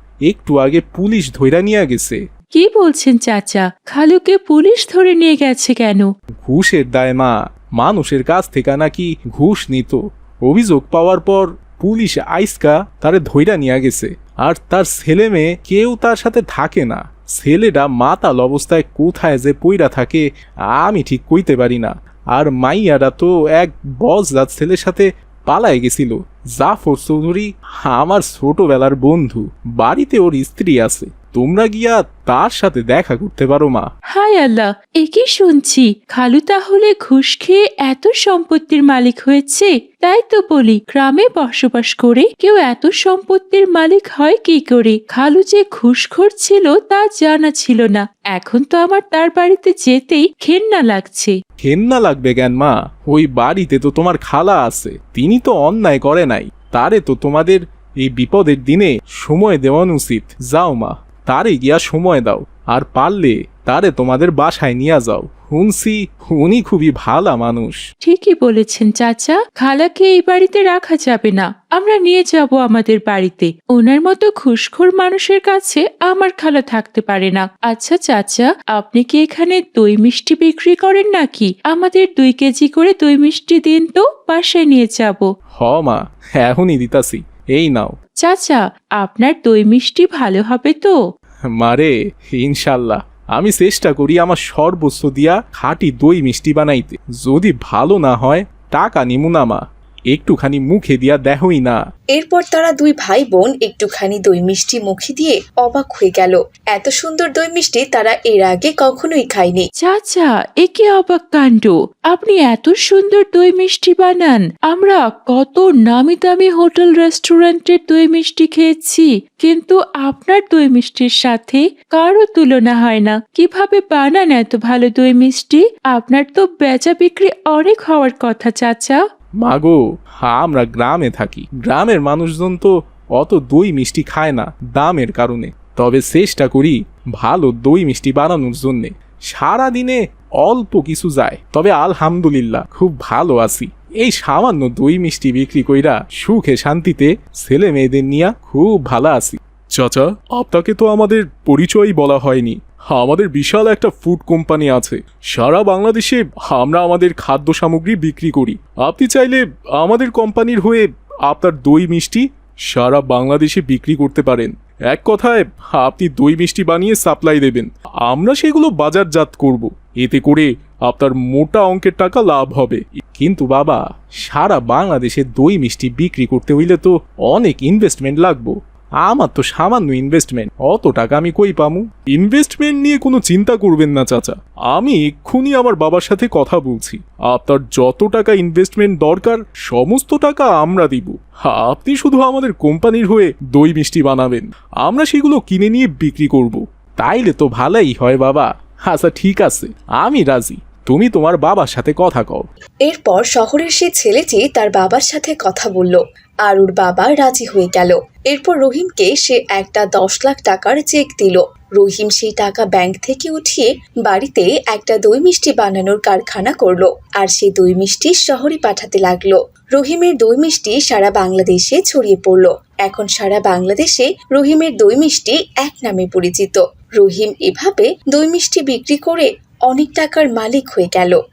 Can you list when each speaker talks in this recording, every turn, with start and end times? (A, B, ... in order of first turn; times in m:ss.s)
0:00.3-0:02.2 A
0:02.5-0:06.1 B
0:06.4-0:33.9 A
0:34.1-0:51.4 B
0:51.6-1:07.8 A
1:08.0-1:25.3 B
1:25.6-1:28.0 A
1:28.2-1:31.0 B
1:31.5-1:41.8 A
1:42.1-1:49.7 C
1:49.8-2:09.0 B
2:09.4-3:22.4 A
3:22.8-3:51.2 C